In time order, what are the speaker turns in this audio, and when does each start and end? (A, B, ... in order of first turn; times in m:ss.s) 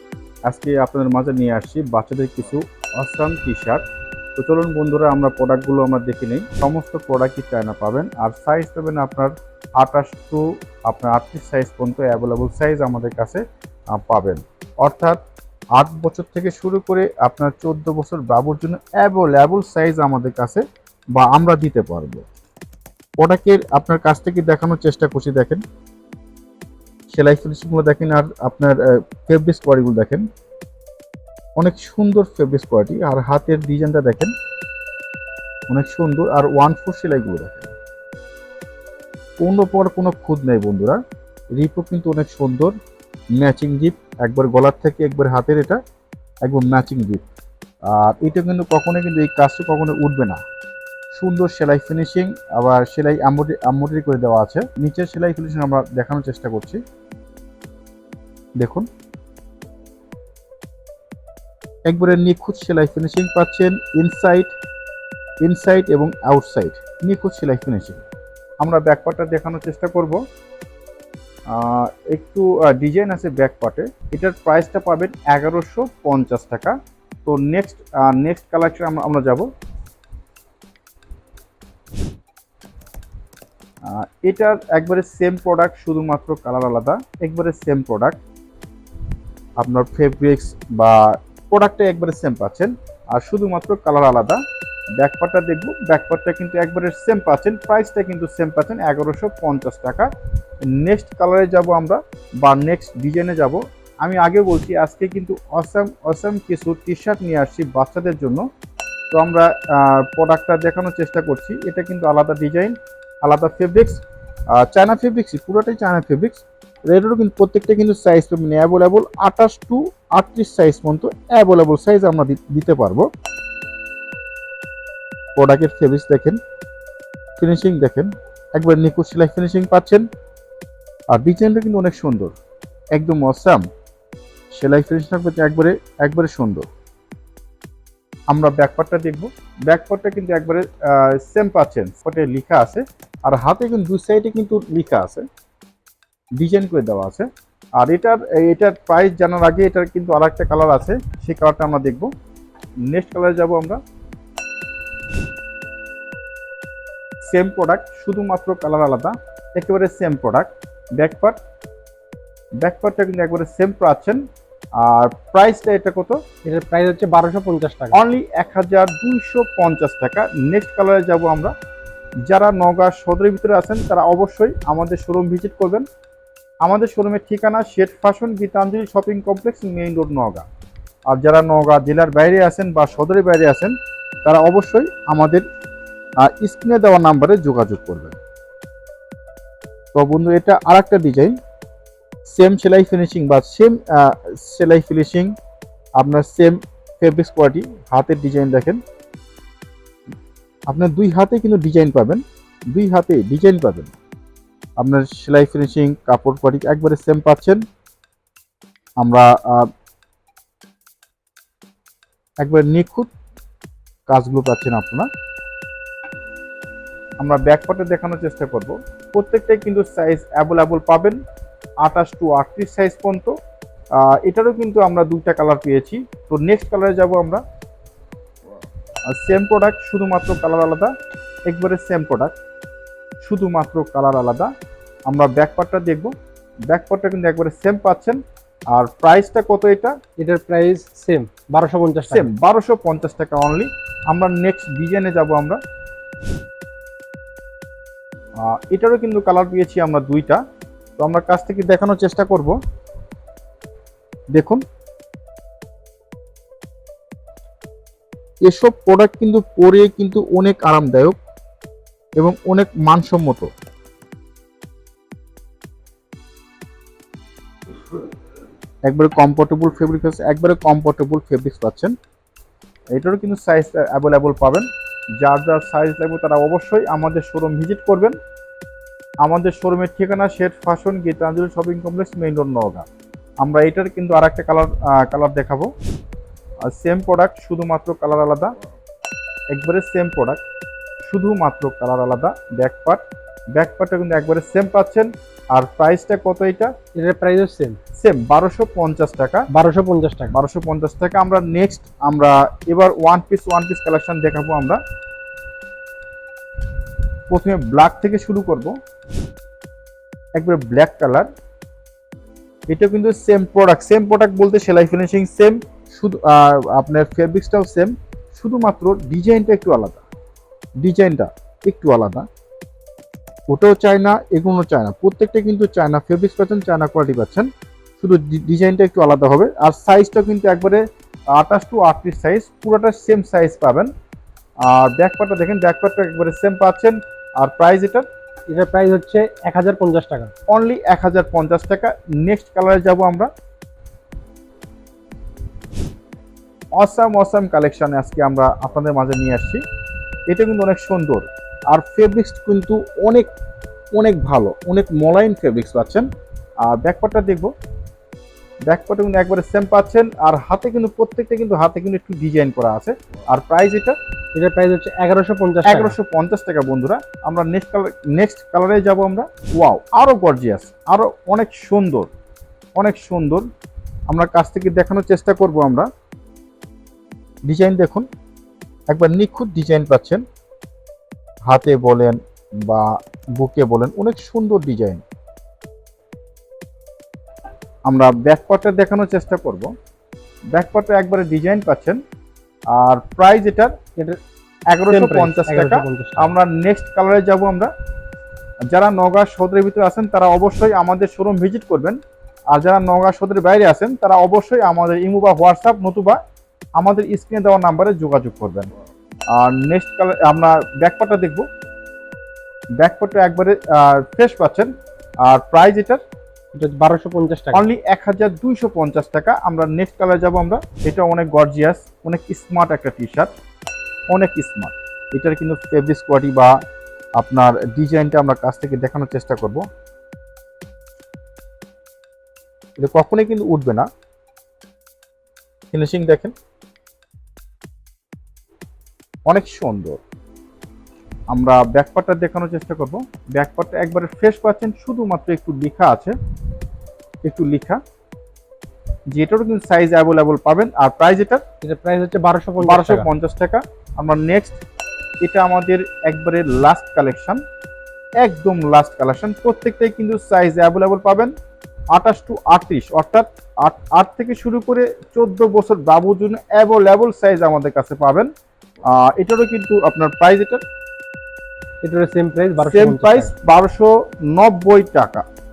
0:00.5-0:03.8 A
0:04.4-0:13.4 A
0:13.9-0:15.2 A
0:15.8-0:20.6 A
0:21.2-0:22.2 A
0:23.2-0:25.6 A
0:27.1-0:30.2 A
0:31.6-0:34.3 A
0:35.7-0:37.7 A
0:39.4-0:41.0 A
0:41.6-0:42.7 A
0:43.4-0:45.8 A
0:46.4-0:47.2 A
0:47.9-0:50.4 A
0:51.1-0:56.8 A
0:58.6-0:58.9 A
1:01.9-1:04.5 A
1:05.4-1:08.0 A
1:08.6-1:10.2 A
1:11.5-1:19.5 A
1:23.8-1:28.2 A
1:29.6-1:34.4 A
1:35.0-1:40.1 A
1:40.7-1:48.4 A
1:49.1-1:54.0 A
1:54.5-2:03.1 A
2:05.4-2:06.4 A
2:07.4-2:10.0 A
2:11.1-2:12.3 A
2:12.9-2:13.6 A
2:14.5-2:16.7 A
2:18.3-2:25.2 A
2:26.4-2:27.3 A
2:27.8-2:32.1 A
2:32.9-2:33.8 A
2:37.2-2:41.4 A
2:42.6-2:44.2 A
2:44.8-2:46.2 A
2:46.4-2:48.0 B
2:47.9-2:51.5 A
2:52.3-2:55.8 A
2:56.6-3:00.4 A
3:01.1-3:05.4 A
3:06.2-3:08.2 A
3:09.9-3:11.4 A
3:12.3-3:15.3 A
3:16.0-3:18.8 A
3:20.7-3:23.9 A
3:24.8-3:27.6 A
3:29.0-3:29.7 A
3:32.4-3:33.1 A
3:34.1-3:35.1 A
3:37.2-3:41.2 A
3:41.8-3:43.3 A
3:44.0-3:47.4 A
3:49.1-3:50.9 A
3:51.5-3:52.3 A
3:53.2-3:54.5 A
3:55.1-3:56.1 A
3:56.7-3:58.2 A
3:58.7-3:59.9 A
4:00.2-4:02.3 B
4:02.1-4:05.6 A
4:08.4-4:10.4 A
4:11.0-4:12.6 A
4:14.3-4:14.6 A
4:18.4-4:21.2 A
4:22.2-4:23.5 A
4:28.9-4:31.9 A
4:32.9-4:34.7 A
4:35.2-4:38.2 A
4:39.2-4:42.8 A
4:43.4-4:45.7 A
4:46.7-4:48.5 A
4:49.5-4:50.4 A
4:51.0-4:53.0 A
4:53.6-4:56.7 A
4:57.0-4:57.8 B
4:58.0-4:59.5 A
4:59.5-5:00.3 B
5:00.3-5:04.8 A
5:07.3-5:08.8 A
5:10.4-5:11.3 A
5:12.7-5:20.0 A
5:20.8-5:22.2 A
5:23.5-5:30.8 A
5:31.3-5:33.9 A
5:34.6-5:38.1 A
5:38.5-5:40.3 B
5:40.5-5:43.3 A
5:46.8-5:49.6 A
5:50.3-5:53.3 A
5:54.0-5:56.1 A
5:56.6-5:57.5 A
5:58.7-6:04.0 A
6:04.4-6:06.0 B
6:05.6-6:12.1 A
6:12.8-6:13.4 A
6:14.1-6:15.9 A
6:17.5-6:18.1 A
6:18.9-6:20.2 A
6:21.5-6:22.9 A
6:23.4-6:25.0 A
6:27.9-6:29.7 A
6:30.5-6:32.0 A
6:32.7-6:33.8 A
6:34.7-6:37.7 A
6:34.9-6:36.3 B
6:38.7-6:42.0 A
6:42.5-6:46.2 A
6:46.8-6:48.7 A
6:49.3-6:51.4 A
6:52.8-6:54.7 A
6:55.2-6:56.0 A
6:56.5-6:57.7 B
6:57.5-7:03.3 A
7:04.1-7:06.5 A
7:07.2-7:09.6 A
7:12.8-7:13.9 A
7:15.7-7:16.3 A
7:19.3-7:20.0 A
7:21.3-7:26.2 A
7:27.2-7:27.8 A
7:29.1-7:31.4 A
7:31.6-7:33.1 B
7:32.6-7:34.6 A
7:35.2-7:37.4 A
7:38.2-7:41.3 A
7:41.9-7:48.3 A
7:48.9-7:50.6 A
7:51.8-7:53.3 B
7:52.6-7:55.2 A